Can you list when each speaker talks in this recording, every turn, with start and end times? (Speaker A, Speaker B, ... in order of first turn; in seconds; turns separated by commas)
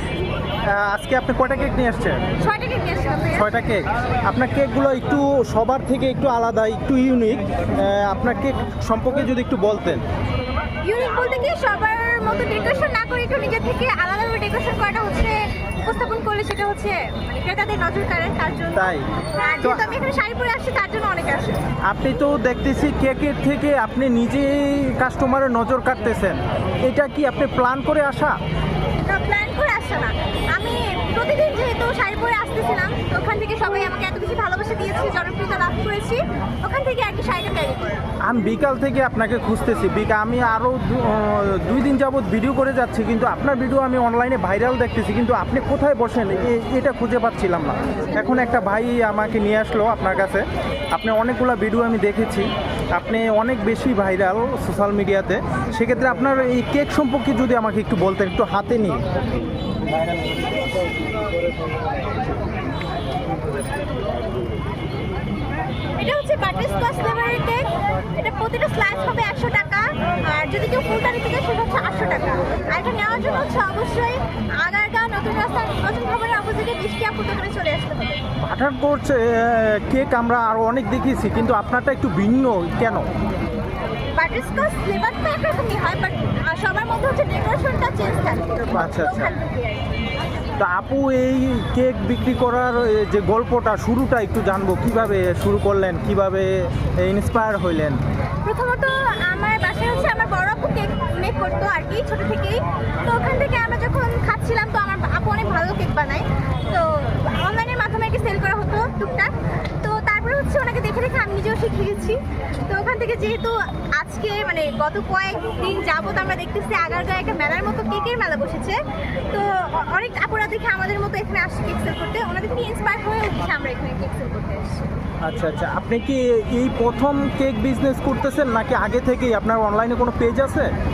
Speaker A: 0.7-2.2, Speaker B: 2.4-3.5, Speaker A: 3.4-10.0, Speaker B: 10.8-21.6, Speaker A: 18.8-19.1, Speaker A: 21.9-28.4, Speaker B: 29.1-38.0, Speaker A: 38.2-59.0, Speaker B: 66.0-78.2, Speaker A: 78.4-83.1, Speaker B: 84.2-89.9, Speaker A: 88.8-89.3, Speaker A: 90.6-98.0, Speaker B: 98.4-118.8, Speaker B: 119.3-124.9, Speaker A: 125.2-130.7